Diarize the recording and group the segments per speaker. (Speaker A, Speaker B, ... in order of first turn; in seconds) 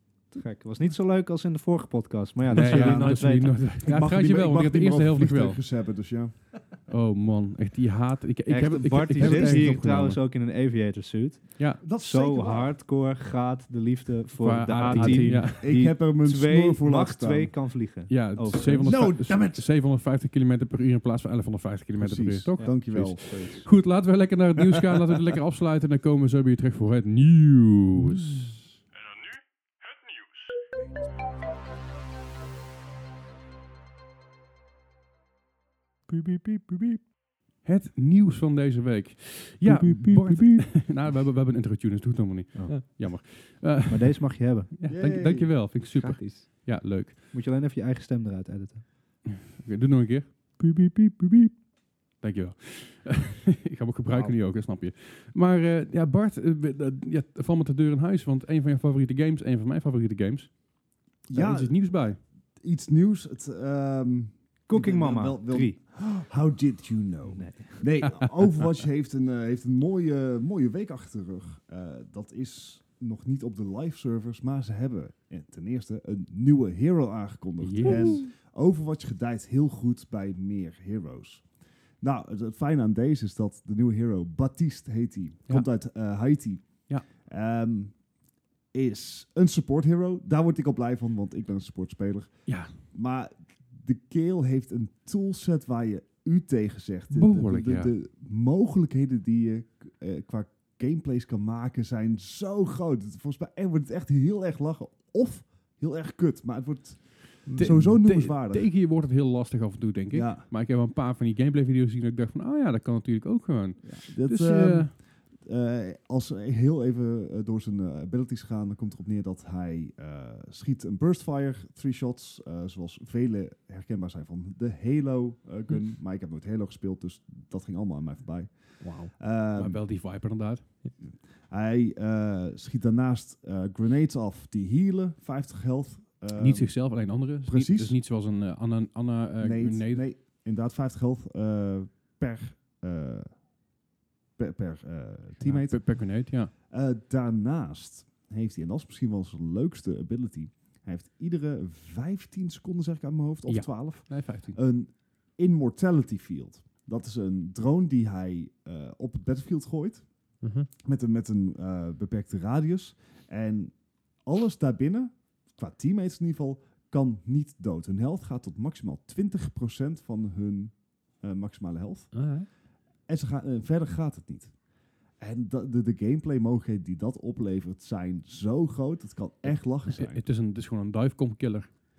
Speaker A: 0.3-3.8, 8.5-19.1, 22.6-23.6, 42.5-44.7, 47.3-48.9, 64.7-65.8, 67.3-67.9
Speaker B: 2.5-2.9, 3.8-6.5, 9.2-9.7, 11.8-12.7, 15.4-17.6, 18.8-19.7, 22.0-23.7, 44.9-45.7, 61.3-88.0, 88.7-108.7, 110.1-110.5, 113.8-129.8, 131.0-138.0, 139.4-143.4, 144.4-160.1, 160.8-174.6, 175.2-180.2
Speaker C: 2.5-3.5, 14.8-15.5, 36.1-37.0, 39.6-40.7, 45.9-46.5, 107.5-108.0, 128.8-129.1, 160.4-160.7, 172.1-172.5
Speaker D: 2.5-5.6, 6.9-10.2, 14.4-15.7, 18.1-28.4, 37.6-47.2, 49.3-51.5, 52.2-60.6, 61.3-62.2, 77.6-78.2, 92.5-92.8, 97.1-97.9, 107.5-115.0, 129.6-130.7, 136.3-140.1, 145.4-146.5, 153.5-154.6, 179.8-181.7